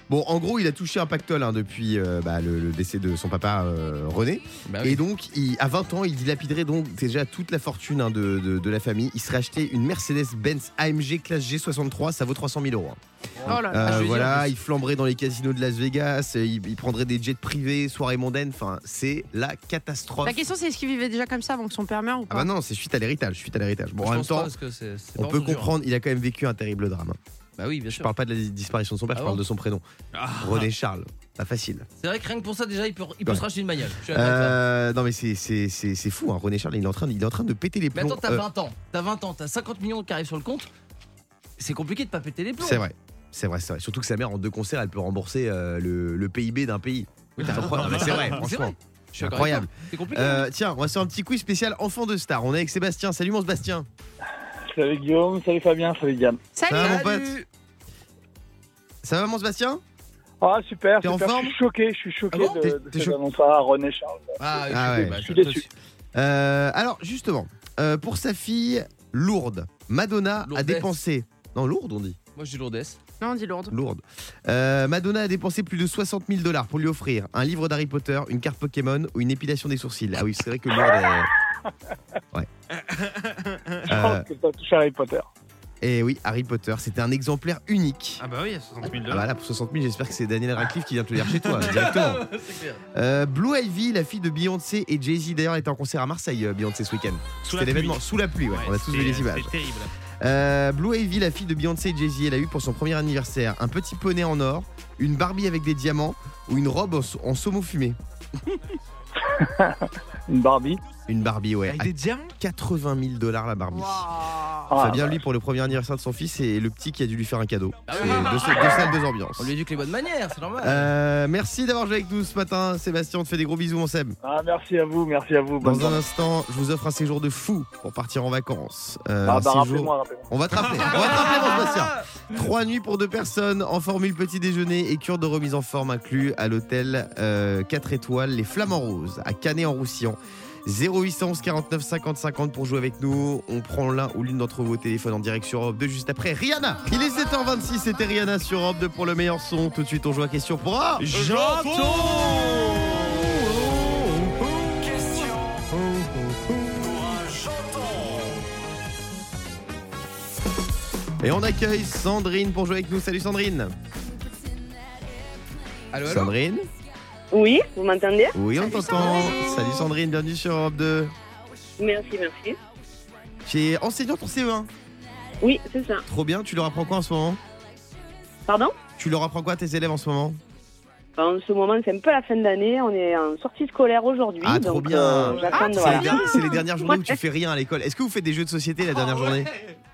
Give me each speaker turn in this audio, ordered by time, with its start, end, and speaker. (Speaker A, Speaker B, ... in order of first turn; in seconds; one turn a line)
Speaker A: 0.1-13.0
Speaker B: 4.7-5.0
Speaker B: 13.4-14.6
Speaker C: 13.5-14.1
Speaker A: 13.6-20.4
Speaker C: 20.2-22.5
Speaker A: 22.3-24.5
Speaker B: 24.0-25.7
Speaker A: 25.2-27.2
Speaker B: 27.6-28.1
Speaker A: 27.9-29.8
Speaker B: 29.1-29.4
Speaker D: 30.1-30.7
Speaker A: 30.4-31.9
Speaker B: 32.0-34.6
Speaker A: 34.1-38.5
Speaker B: 37.9-40.7
Speaker B: 41.6-42.9
Speaker A: 42.6-53.9
Speaker D: 47.7-48.3
Speaker B: 47.7-50.5
Speaker E: 54.7-56.4
Speaker C: 56.5-57.1
Speaker A: 56.7-57.4
Speaker B: 56.7-57.5
Speaker A: 59.0-59.8
Speaker E: 60.4-64.6
Speaker A: 61.0-61.6
Speaker A: 62.6-63.2
Speaker B: 64.4-65.7
Speaker A: 64.7-65.3
Speaker E: 65.2-65.6
Speaker A: 66.2-72.2
Speaker B: 70.4-71.0
Speaker B: 72.3-73.0
Speaker C: 73.2-73.8
Speaker A: 73.7-81.3
Speaker D: 82.8-83.8
Speaker A: 83.9-84.3
Speaker E: 83.9-85.3
Speaker A: 85.8-88.2
Speaker D: 88.2-89.3
Speaker A: 89.0-92.3
Speaker D: 91.3-91.8
Speaker B: 91.6-92.8
Speaker A: 93.0-99.5
Speaker D: 97.4-99.9
Speaker A: 100.2-108.0
Speaker E: 109.4-110.8
Speaker A: 111.1-114.1
Speaker D: 111.7-112.3
Speaker D: 114.3-114.7
Speaker E: 114.7-115.2
Speaker A: 114.8-119.5
Speaker B: 117.9-120.9
Speaker A: 120.6-124.2
Speaker E: 124.2-126.0
Speaker A: 125.6-151.2
Speaker E: 129.2-130.3
Speaker D: 130.7-131.7
Speaker B: 130.9-131.9
Speaker D: 151.0-157.4
Speaker A: 161.2-163.7
Speaker B: 165.9-166.3
Speaker A: 166.0-166.7
Speaker F: 167.3-168.4
Speaker A: 168.3-171.1
Speaker C: 168.5-169.8
Speaker F: 171.8-172.6
Speaker A: 173.5-174.7
Speaker F: 175.4-176.0
Speaker A: 176.1-177.4
Speaker F: 178.5-178.8
Speaker A: 179.0-180.4
Speaker F: 181.2-187.2
Speaker A: 184.4-189.5
Speaker C: 185.5-186.7